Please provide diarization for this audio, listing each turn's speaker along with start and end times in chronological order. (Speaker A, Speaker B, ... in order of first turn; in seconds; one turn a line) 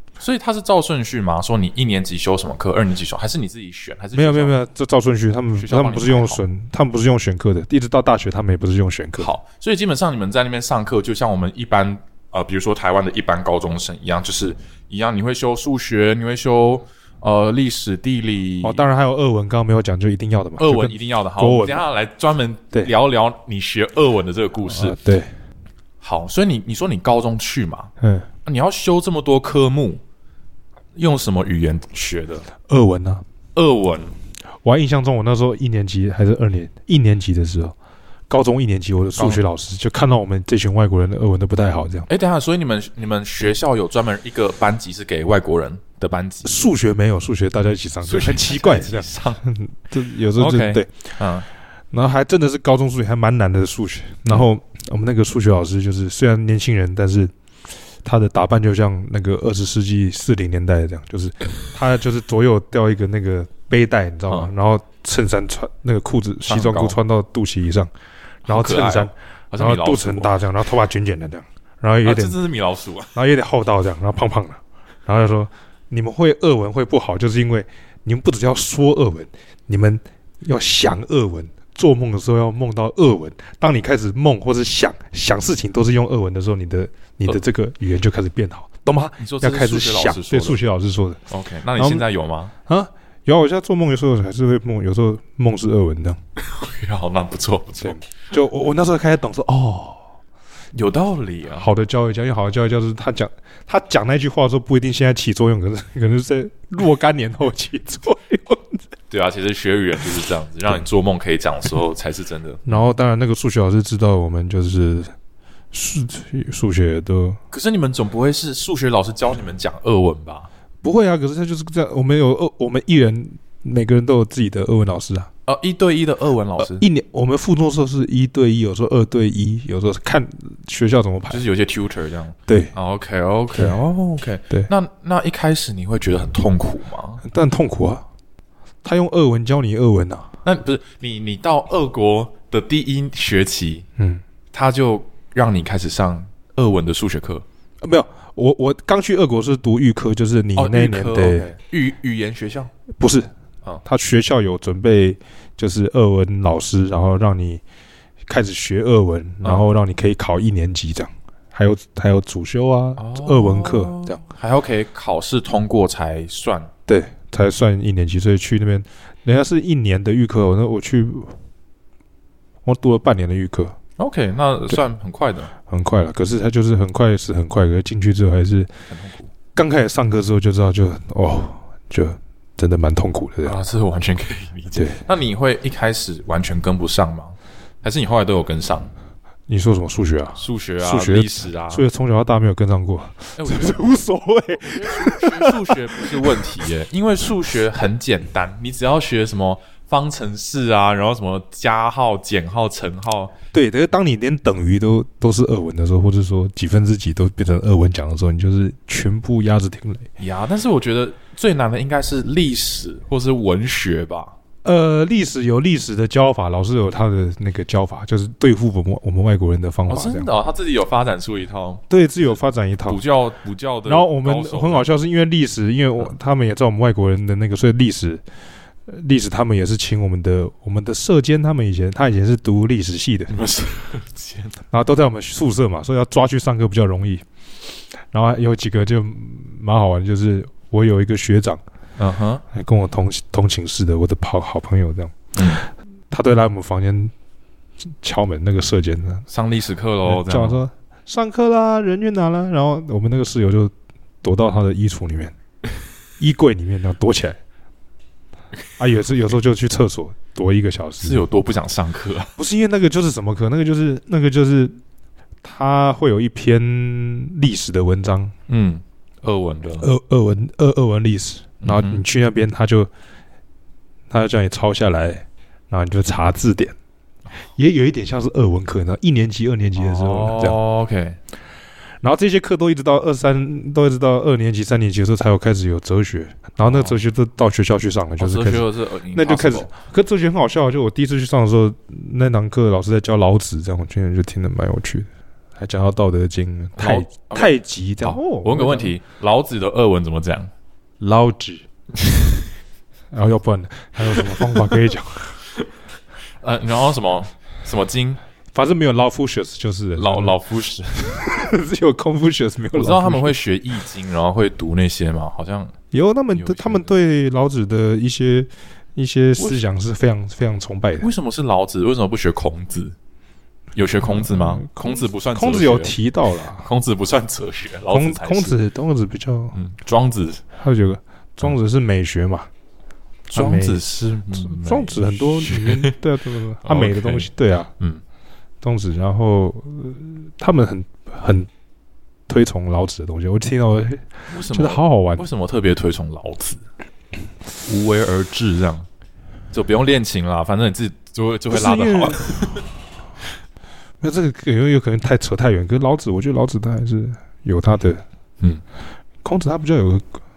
Speaker A: 0.2-4.6
Speaker B: 4.1-9.3
Speaker A: 5.6-6.4
Speaker A: 9.2-18.9
Speaker B: 18.6-21.9
Speaker A: 20.6-25.0
Speaker B: 24.7-25.3
Speaker A: 26.0-27.9
Speaker B: 28.0-28.3
Speaker A: 28.4-30.0
Speaker A: 31.0-32.5
Speaker B: 32.7-33.2
Speaker A: 33.5-34.1
Speaker B: 34.6-37.8
Speaker B: 38.3-42.1
Speaker A: 42.1-46.6
Speaker B: 46.4-50.9
Speaker A: 48.0-49.4
Speaker A: 50.4-51.5
Speaker B: 51.9-57.3
Speaker B: 58.0-67.9
Speaker A: 66.5-67.0
Speaker A: 68.5-70.4
Speaker B: 68.5-72.4
Speaker A: 72.0-73.2
Speaker B: 73.2-91.2
Speaker A: 89.2-90.6
Speaker A: 91.3-92.5
Speaker B: 91.8-92.1
Speaker B: 92.7-96.2
Speaker A: 96.4-98.0
Speaker B: 97.8-100.1
Speaker A: 100.7-101.7
Speaker B: 101.6-108.8
Speaker A: 109.1-112.7
Speaker B: 112.7-115.1
Speaker B: 115.7-117.4
Speaker A: 117.5-120.5
Speaker B: 120.8-125.3
Speaker A: 125.5-126.8
Speaker B: 126.6-131.4
Speaker A: 131.3-137.2
Speaker B: 132.5-132.7
Speaker B: 137.2-138.1
Speaker B: 138.8-140.3
Speaker A: 140.4-143.9
Speaker B: 144.0-144.2
Speaker A: 144.5-147.4
Speaker B: 147.8-151.5
Speaker A: 150.6-152.7
Speaker B: 153.0-153.3
Speaker B: 153.8-157.6
Speaker B: 158.3-164.2
Speaker A: 163.0-166.7
Speaker B: 166.9-171.4
Speaker B: 172.7-173.8
Speaker A: 174.0-175.5
Speaker B: 175.7-178.7
Speaker A: 178.9-179.3
Speaker B: 179.5-183.6
Speaker A: 183.4-188.9
Speaker B: 189.5-196.6
Speaker A: 190.4-191.8
Speaker A: 193.4-193.9
Speaker A: 194.6-203.3
Speaker B: 203.5-210.1
Speaker A: 210.2-214.3
Speaker B: 214.6-220.3
Speaker A: 219.9-221.8
Speaker B: 221.9-223.0
Speaker A: 222.8-224.9
Speaker B: 223.9-228.2
Speaker B: 228.9-233.3
Speaker A: 233.3-234.6
Speaker B: 234.7-237.2
Speaker B: 238.1-241.6
Speaker A: 242.0-242.4
Speaker B: 242.5-245.3
Speaker A: 245.4-245.6
Speaker B: 246.1-247.1
Speaker B: 248.0-249.3
Speaker A: 249.3-250.6
Speaker B: 250.1-255.3
Speaker B: 256.2-257.4
Speaker B: 258.8-261.2
Speaker A: 261.0-262.4
Speaker B: 262.4-264.8
Speaker B: 265.4-268.3
Speaker A: 268.5-269.9
Speaker B: 269.8-272.9
Speaker A: 271.6-272.0
Speaker B: 274.1-276.8
Speaker B: 277.6-280.6
Speaker A: 279.8-281.2
Speaker B: 282.0-298.9
Speaker A: 286.6-287.0
Speaker A: 288.2-289.7
Speaker A: 296.8-300.5
Speaker B: 301.0-301.6
Speaker B: 303.1-305.4
Speaker A: 306.4-308.2
Speaker B: 308.5-310.4
Speaker A: 310.0-311.0
Speaker B: 310.9-313.4
Speaker A: 312.7-315.7
Speaker B: 315.9-321.1
Speaker A: 316.4-316.9
Speaker A: 321.0-322.9
Speaker A: 323.8-325.9
Speaker B: 324.0-326.7
Speaker A: 326.5-328.6
Speaker B: 327.9-329.6
Speaker A: 329.6-330.4
Speaker B: 330.6-332.5
Speaker B: 333.3-333.8
Speaker A: 333.3-335.9
Speaker B: 334.4-337.7
Speaker A: 336.6-338.0
Speaker B: 338.6-341.5
Speaker B: 342.3-345.3
Speaker A: 344.3-346.6
Speaker A: 347.7-348.9
Speaker A: 349.5-352.7
Speaker B: 351.5-352.4
Speaker B: 354.0-358.0
Speaker B: 359.2-360.1